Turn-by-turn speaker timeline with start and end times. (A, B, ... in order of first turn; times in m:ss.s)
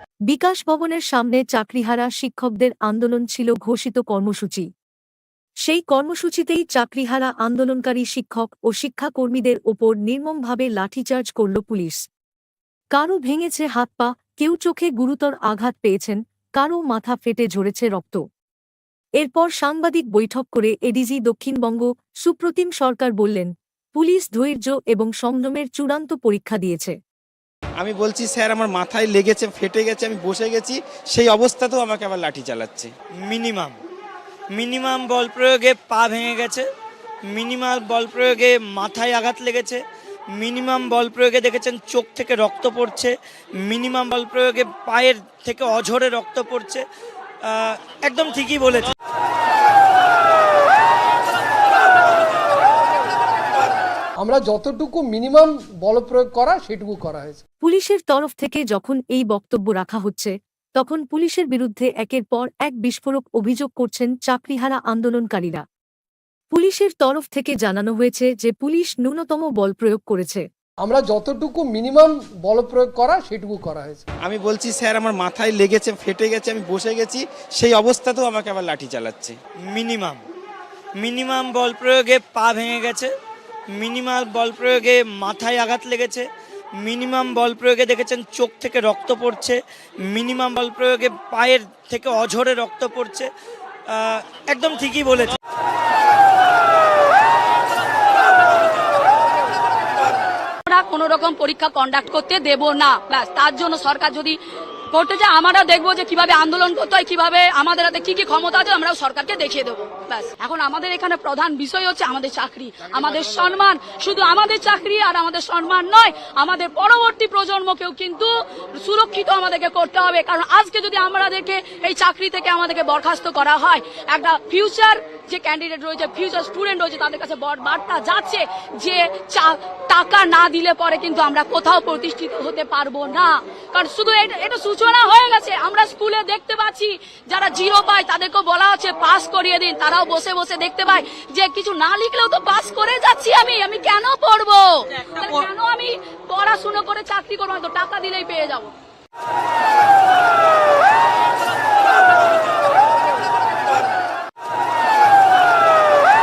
0:00.3-0:04.7 A
0:05.6-0:12.0 A
0:12.9-0:18.2 A
0:19.2-0:27.0 A
0:27.8-0:32.9 B
0:33.2-0:33.8 C
0:34.5-0:36.6 C
0:37.3-0:39.8 C
0:40.3-0:46.8 C
0:47.4-0:48.9 C
0:54.2-0:57.4 D
0:57.6-1:05.6 A
1:06.5-1:10.4 A
1:10.8-1:14.0 D
1:14.2-1:19.3 B
1:19.7-1:20.2 C
1:21.0-1:23.1 C
1:23.7-1:26.3 C
1:26.8-1:33.3 C
1:33.9-1:35.3 C
1:40.6-1:44.4 E
1:44.9-2:28.7 E